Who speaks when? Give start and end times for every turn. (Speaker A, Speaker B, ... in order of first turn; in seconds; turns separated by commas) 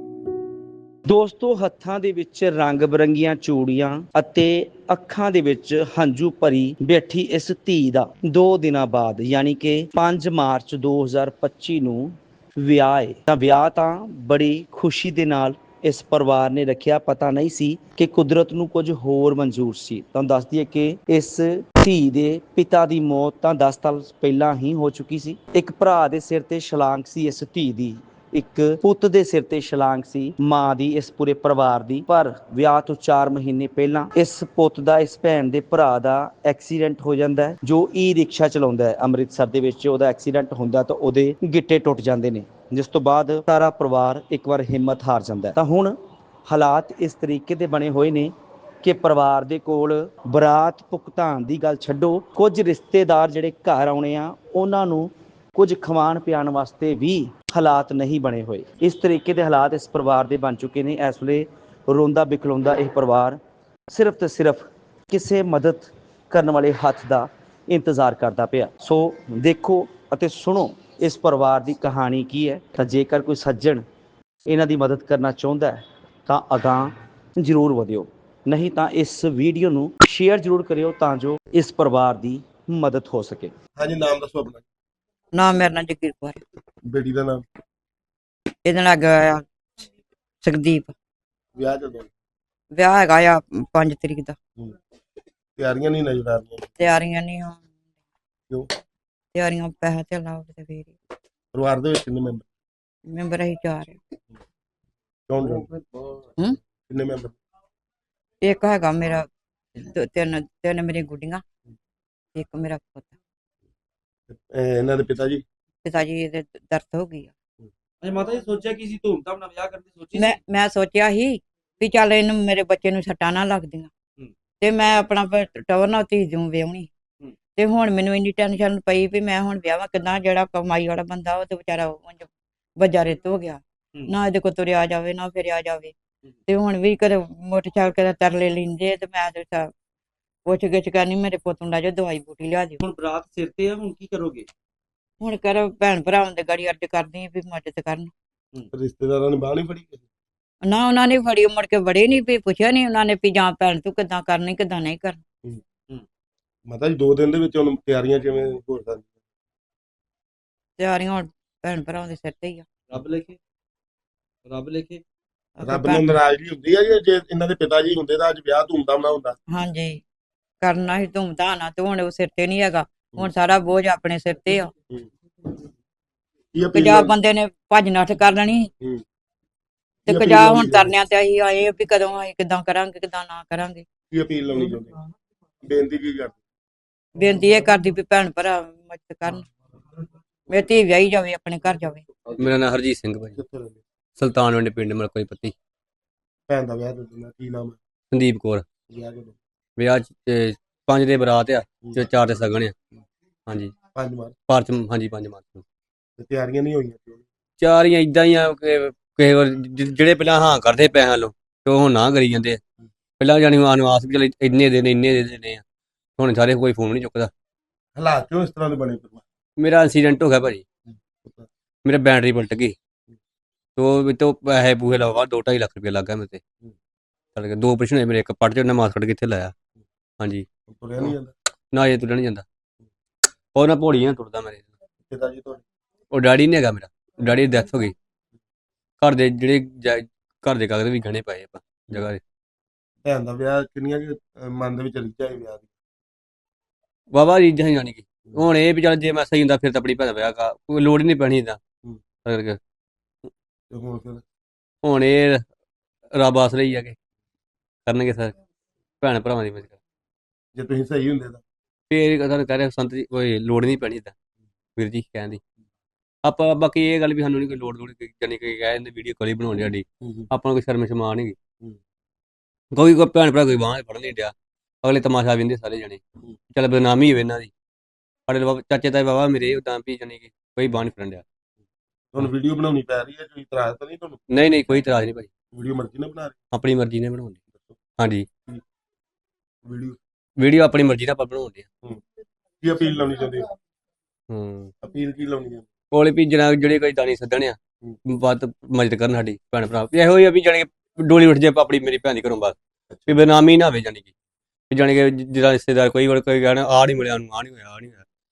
Speaker A: 1.1-73.8, Speaker A: 74.5-83.5, Speaker B: 83.8-84.6, Speaker C: 85.3-86.4, Speaker B: 86.9-87.4, Speaker C: 88.6-89.5, Speaker C: 90.4-90.9, Speaker B: 91.5-92.1, Speaker C: 92.7-94.4, Speaker B: 95.6-96.7, Speaker C: 96.8-97.7, Speaker C: 99.3-100.9, Speaker B: 101.5-102.5, Speaker C: 103.1-104.0, Speaker B: 105.3-105.7, Speaker B: 106.9-107.3, Speaker C: 108.4-111.4, Speaker C: 112.3-113.1, Speaker B: 114.3-115.4, Speaker C: 115.8-117.3, Speaker D: 118.0-120.4, Speaker C: 120.1-123.9, Speaker C: 124.6-126.9, Speaker C: 127.5-135.9, Speaker C: 136.5-139.7, Speaker C: 140.4-142.8, Speaker D: 142.8-144.5, Speaker C: 145.2-148.1, Speaker B: 148.7-150.0, Speaker C: 150.6-155.2, Speaker B: 156.7-159.1, Speaker C: 160.8-162.7, Speaker D: 162.9-163.4, Speaker D: 164.4-165.0, Speaker C: 165.6-166.2, Speaker B: 165.6-169.4, Speaker C: 169.5-170.0, Speaker C: 170.6-174.7, Speaker B: 176.5-177.1, Speaker C: 176.7-178.7, Speaker B: 180.1-180.9, Speaker C: 180.1-183.8, Speaker B: 184.1-185.0, Speaker B: 185.6-186.4, Speaker C: 187.2-189.5, Speaker C: 190.5-192.1, Speaker E: 192.4-193.4, Speaker B: 193.3-193.8, Speaker E: 194.2-195.5, Speaker B: 196.5-197.8, Speaker E: 198.1-198.7, Speaker B: 198.9-199.4, Speaker E: 199.8-202.7, Speaker B: 201.8-202.1, Speaker E: 203.5-203.7, Speaker B: 203.9-204.3, Speaker E: 204.5-205.6, Speaker B: 206.2-207.2, Speaker E: 207.6-212.6, Speaker E: 213.2-215.6, Speaker E: 216.2-217.3, Speaker B: 217.9-219.2, Speaker E: 219.6-220.6, Speaker B: 221.2-221.5, Speaker E: 221.8-222.7, Speaker E: 223.8-226.4, Speaker E: 227.3-229.5, Speaker E: 230.2-230.5, Speaker B: 230.7-231.3, Speaker E: 231.7-232.4, Speaker E: 233.5-234.7, Speaker B: 235.1-235.6, Speaker E: 236.1-237.9, Speaker E: 239.0-242.2, Speaker B: 243.0-245.7, Speaker E: 247.1-251.6, Speaker E: 252.2-252.6, Speaker B: 253.7-254.2, Speaker E: 254.8-255.4, Speaker E: 256.1-256.9, Speaker E: 257.9-258.3, Speaker E: 259.0-259.8, Speaker B: 260.5-261.4, Speaker E: 261.9-264.1, Speaker E: 264.8-265.4, Speaker E: 266.2-271.4, Speaker B: 270.0-270.3, Speaker E: 272.7-276.0, Speaker E: 276.5-277.5, Speaker E: 278.3-281.2, Speaker B: 282.1-284.2, Speaker E: 284.3-285.3, Speaker B: 285.5-286.4, Speaker E: 286.5-287.4, Speaker E: 288.0-288.3, Speaker B: 289.6-290.0, Speaker E: 290.4-291.6, Speaker B: 292.6-293.5, Speaker E: 294.3-294.7, Speaker B: 294.8-295.7, Speaker E: 295.9-302.6, Speaker B: 302.9-303.1, Speaker E: 303.1-304.1, Speaker E: 304.7-308.0